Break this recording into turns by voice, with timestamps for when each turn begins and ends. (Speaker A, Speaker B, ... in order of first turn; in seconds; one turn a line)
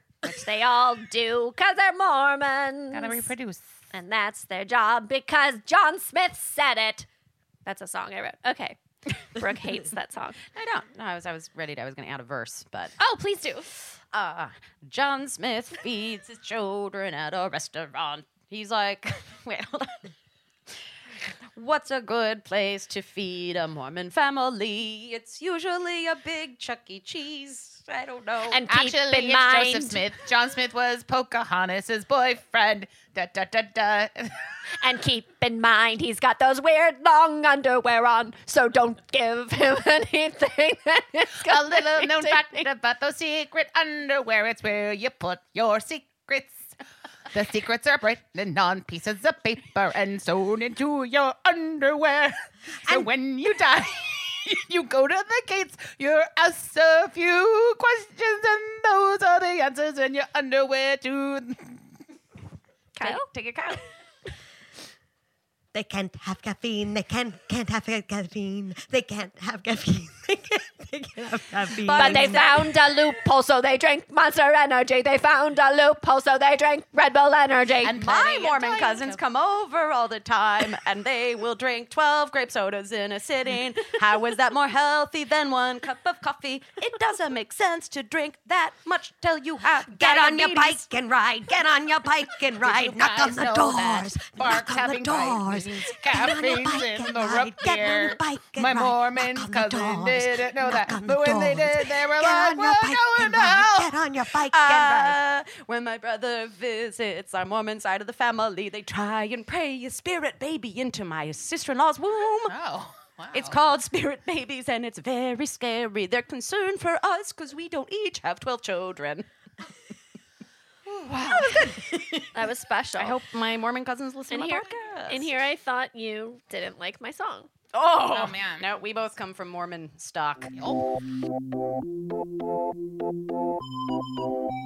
Speaker A: 0.2-3.3
Speaker B: 2.9-3.7
Speaker A: 3.9-7.1
Speaker A: 7.7-10.4
Speaker C: 10.5-12.9
Speaker A: 13.0-13.7
Speaker C: 14.1-20.1
Speaker C: 20.7-28.6
Speaker A: 28.5-30.0
Speaker B: 28.7-34.5
Speaker A: 34.8-42.7
Speaker B: 41.4-46.8
Speaker B: 47.3-61.8
Speaker A: 63.0-63.3
Speaker C: 63.0-63.8
Speaker D: 65.7-72.9
Speaker A: 71.9-78.4
Speaker B: 77.8-79.2
Speaker C: 78.0-90.8
Speaker D: 89.9-105.2
Speaker B: 92.6-104.0
Speaker C: 104.5-112.5
Speaker B: 104.6-105.1
Speaker B: 112.5-113.6
Speaker C: 113.3-119.3
Speaker B: 120.8-121.7
Speaker D: 121.4-122.2
Speaker A: 122.3-123.2
Speaker C: 123.0-125.1
Speaker A: 124.3-127.5
Speaker C: 127.7-130.5
Speaker B: 128.1-128.7
Speaker B: 130.5-130.8